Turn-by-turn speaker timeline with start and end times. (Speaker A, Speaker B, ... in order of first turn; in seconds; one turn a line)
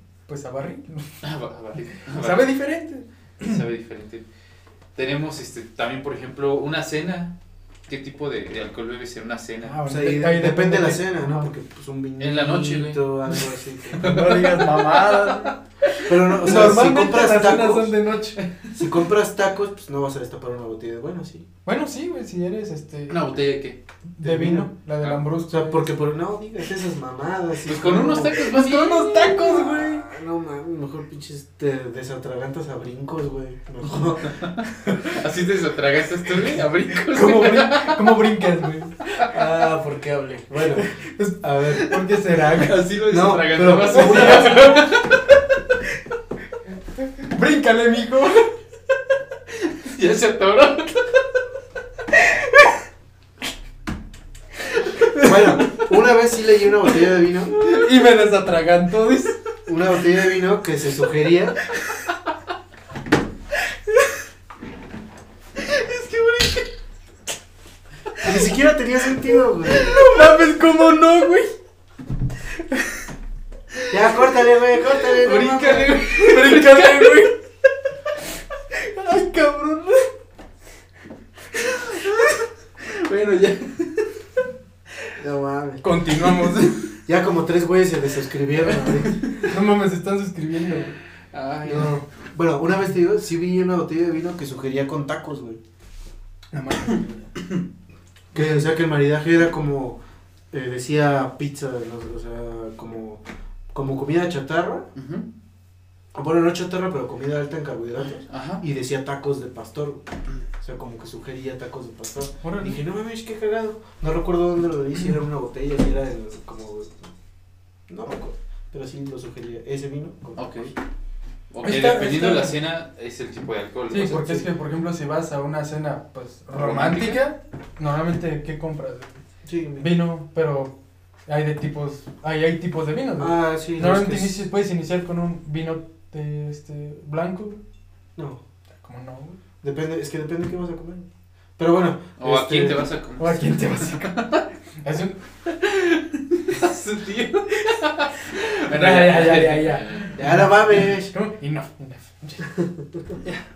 Speaker A: 0.3-1.1
Speaker B: 1.2-2.5
Speaker A: 2.0-3.6
Speaker B: 3.5-4.2
Speaker B: 5.0-7.3
Speaker B: 7.9-9.8
Speaker A: 9.6-11.5
Speaker C: 9.9-14.1
Speaker B: 12.2-15.6
Speaker A: 14.0-18.4
Speaker C: 16.1-17.9
Speaker B: 18.4-18.8
Speaker C: 18.8-21.4
Speaker A: 21.7-23.2
Speaker B: 23.1-23.8
Speaker A: 24.1-25.9
Speaker C: 24.2-24.7
Speaker C: 25.5-28.6
Speaker B: 27.6-29.7
Speaker A: 28.1-30.1
Speaker C: 29.4-35.2
Speaker B: 33.9-38.4
Speaker A: 37.1-39.0
Speaker C: 39.3-40.9
Speaker A: 40.8-42.8
Speaker C: 41.4-41.9
Speaker B: 42.3-45.3
Speaker C: 43.1-44.7
Speaker A: 43.9-44.9
Speaker A: 47.0-48.5
Speaker B: 49.5-51.2
Speaker A: 52.1-52.7
Speaker C: 55.2-57.5
Speaker A: 57.5-59.4
Speaker C: 59.7-61.6
Speaker B: 65.8-66.6
Speaker C: 68.2-70.0
Speaker A: 69.7-71.5
Speaker C: 73.9-75.9
Speaker B: 75.1-77.3
Speaker A: 75.9-77.3
Speaker A: 78.7-80.1
Speaker B: 81.5-84.1
Speaker C: 85.2-85.8
Speaker A: 85.8-86.8
Speaker C: 87.1-89.3
Speaker B: 88.7-89.4
Speaker A: 89.4-91.0
Speaker B: 91.3-92.0
Speaker C: 91.7-95.6
Speaker A: 96.5-97.2
Speaker C: 98.3-100.0
Speaker C: 100.5-103.2
Speaker C: 103.7-104.9
Speaker B: 105.0-105.3
Speaker C: 106.1-110.1
Speaker B: 108.3-108.6
Speaker C: 110.6-117.1
Speaker A: 112.4-112.8
Speaker C: 117.9-120.7
Speaker B: 120.4-120.7
Speaker B: 121.5-124.5
Speaker A: 121.6-122.5
Speaker A: 123.9-129.2
Speaker B: 126.5-127.2
Speaker C: 129.4-129.9
Speaker A: 129.8-130.7
Speaker A: 131.3-137.6
Speaker C: 133.2-134.4
Speaker A: 138.8-139.4
Speaker C: 139.6-141.1
Speaker C: 141.6-142.9
Speaker B: 142.2-144.5
Speaker A: 143.2-144.1
Speaker A: 144.8-145.2
Speaker B: 145.5-150.9
Speaker A: 148.7-152.5
Speaker C: 150.2-151.1
Speaker C: 152.5-153.2